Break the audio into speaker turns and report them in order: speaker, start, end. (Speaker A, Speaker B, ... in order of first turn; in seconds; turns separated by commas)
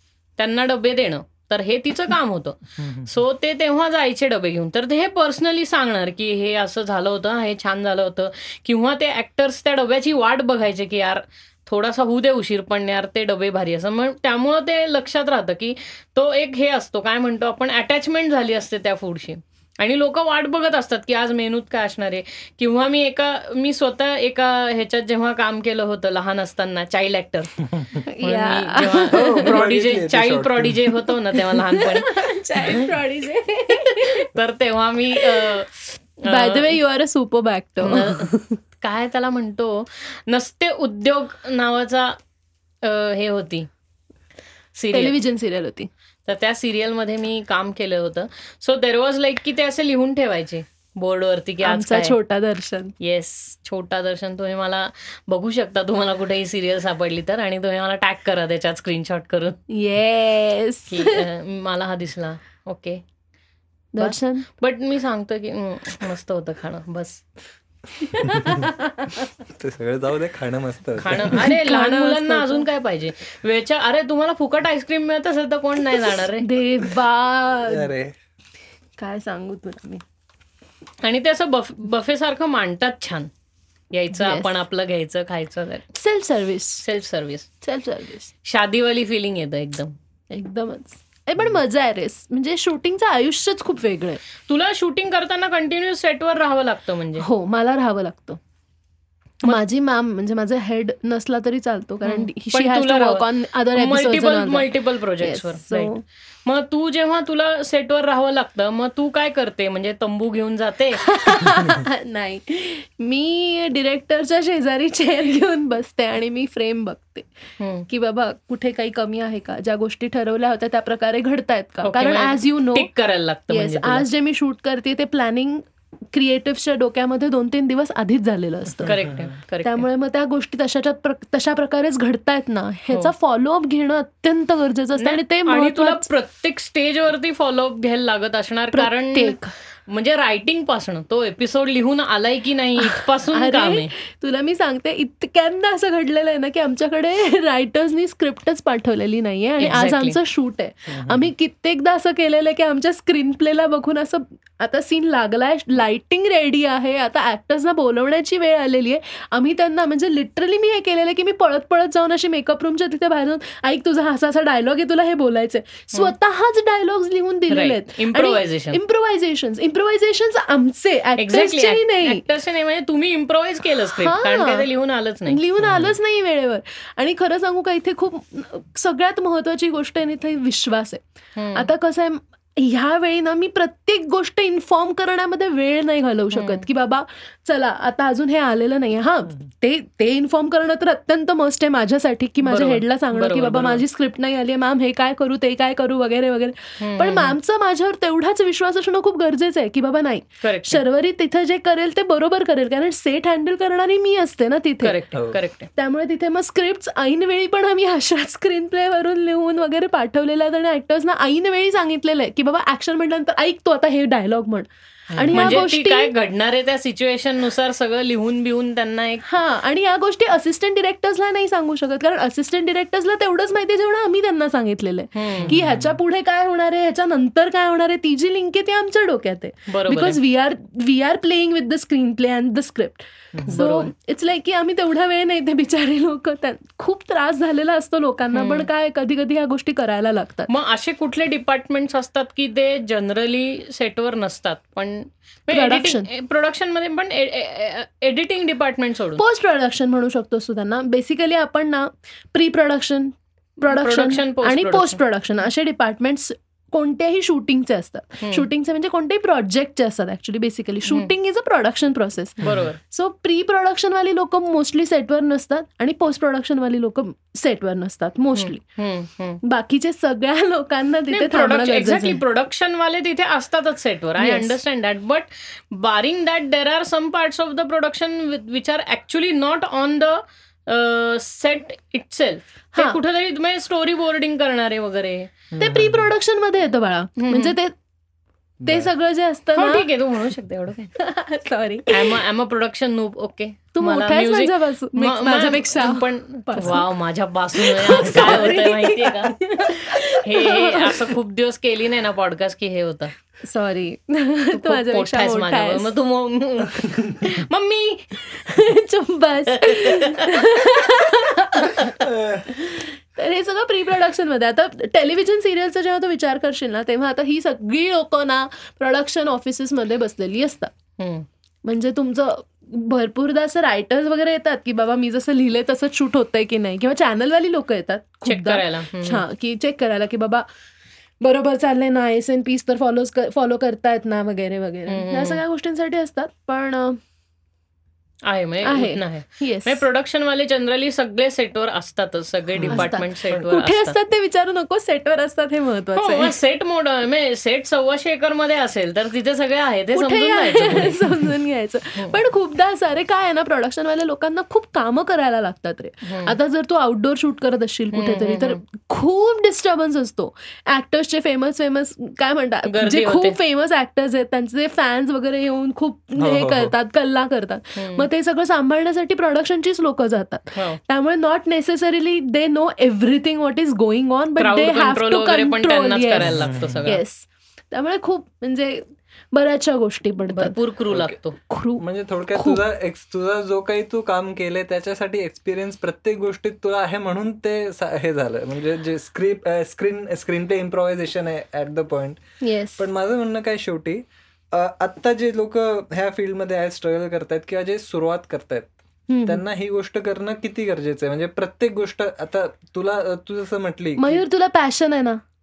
Speaker A: 0.4-32.9, Speaker B: 2.8-3.2, Speaker C: 28.1-29.6, Speaker B: 29.1-30.9, Speaker C: 31.5-34.3, Speaker A: 33.7-36.8, Speaker C: 35.2-35.6, Speaker C: 36.3-38.6, Speaker A: 37.8-42.2, Speaker A: 42.8-43.7, Speaker A: 44.7-45.1, Speaker C: 44.9-45.9, Speaker A: 46.3-52.1, Speaker C: 51.6-52.9, Speaker A: 53.0-59.6, Speaker C: 59.7-61.2, Speaker A: 60.9-63.0, Speaker C: 63.9-64.5, Speaker A: 64.0-67.2, Speaker B: 68.1-68.7, Speaker C: 68.2-69.1, Speaker B: 69.3-71.5, Speaker A: 71.0-76.5, Speaker C: 71.3-72.7, Speaker C: 76.4-77.9, Speaker B: 77.7-78.2, Speaker C: 79.0-80.0, Speaker A: 81.0-83.3, Speaker A: 83.9-85.8, Speaker C: 84.2-84.5, Speaker C: 85.9-86.8, Speaker A: 86.8-87.5, Speaker C: 87.6-88.3, Speaker A: 88.4-89.9, Speaker C: 90.3-94.2, Speaker A: 94.5-97.3, Speaker C: 97.2-98.4, Speaker C: 99.4-106.0, Speaker A: 102.0-105.9, Speaker A: 106.5-111.1, Speaker C: 111.0-117.3, Speaker A: 117.6-117.8, Speaker C: 117.9-122.9, Speaker A: 121.8-124.1, Speaker C: 123.5-128.9, Speaker B: 128.7-129.4, Speaker A: 128.8-129.8, Speaker C: 129.6-136.1, Speaker A: 135.0-143.9, Speaker C: 138.7-139.5, Speaker C: 142.8-172.2, Speaker A: 149.6-150.2, Speaker B: 150.9-151.3, Speaker A: 167.5-168.8, Speaker A: 171.2-175.4, Speaker C: 173.9-174.7, Speaker C: 175.3-181.0, Speaker B: 175.6-175.9, Speaker A: 181.4-181.7, Speaker C: 181.5-205.0, Speaker A: 186.3-186.6, Speaker A: 192.4-193.8, Speaker A: 196.8-197.4, Speaker A: 200.4-200.8, Speaker A: 204.8-205.7, Speaker C: 205.8-216.1, Speaker B: 215.1-215.6, Speaker A: 215.3-219.2, Speaker C: 219.2-240.5, Speaker A: 225.1-225.5, Speaker B: 225.4-226.0, Speaker A: 229.7-230.2, Speaker A: 233.5-233.9, Speaker A: 238.3-238.7, Speaker A: 240.5-249.2, Speaker C: 245.5-246.1, Speaker C: 249.2-268.6, Speaker A: 253.6-255.0, Speaker A: 258.2-258.5, Speaker B: 262.4-262.7, Speaker A: 262.4-262.8, Speaker A: 268.3-269.4, Speaker C: 269.4-272.2, Speaker A: 271.1-285.3, Speaker C: 274.2-274.6, Speaker B: 285.5-286.1, Speaker C: 285.6-287.7, Speaker A: 287.2-287.6, Speaker B: 288.6-288.9, Speaker C: 288.6-289.9, Speaker A: 289.5-290.9, Speaker C: 291.0-292.2, Speaker A: 291.9-299.3, Speaker C: 293.7-296.9, Speaker C: 297.6-301.1, Speaker B: 298.1-298.4, Speaker A: 299.9-303.1, Speaker C: 303.4-305.9, Speaker A: 304.5-308.2, Speaker B: 306.8-307.2, Speaker C: 308.3-311.9, Speaker A: 309.6-310.4, Speaker B: 312.0-312.6, Speaker C: 312.6-320.7, Speaker A: 321.0-321.3, Speaker C: 321.6-330.4, Speaker A: 328.2-329.2, Speaker C: 331.2-337.0, Speaker A: 334.9-335.4, Speaker A: 338.2-344.0, Speaker C: 338.6-339.8, Speaker B: 342.5-342.9, Speaker C: 342.7-346.3, Speaker A: 345.9-350.9, Speaker C: 349.9-380.6, Speaker A: 356.0-356.4, Speaker A: 357.9-358.6, Speaker A: 362.6-363.4, Speaker B: 366.2-366.7, Speaker A: 367.8-368.1, Speaker A: 370.5-370.8, Speaker A: 374.4-377.0, Speaker B: 376.2-376.8, Speaker A: 380.3-381.4, Speaker B: 380.9-381.1, Speaker C: 381.5-382.6, Speaker B: 381.8-392.2, Speaker C: 392.4-392.8, Speaker B: 392.8-398.7, Speaker C: 399.1-399.4, Speaker B: 399.2-404.2, Speaker C: 404.0-405.2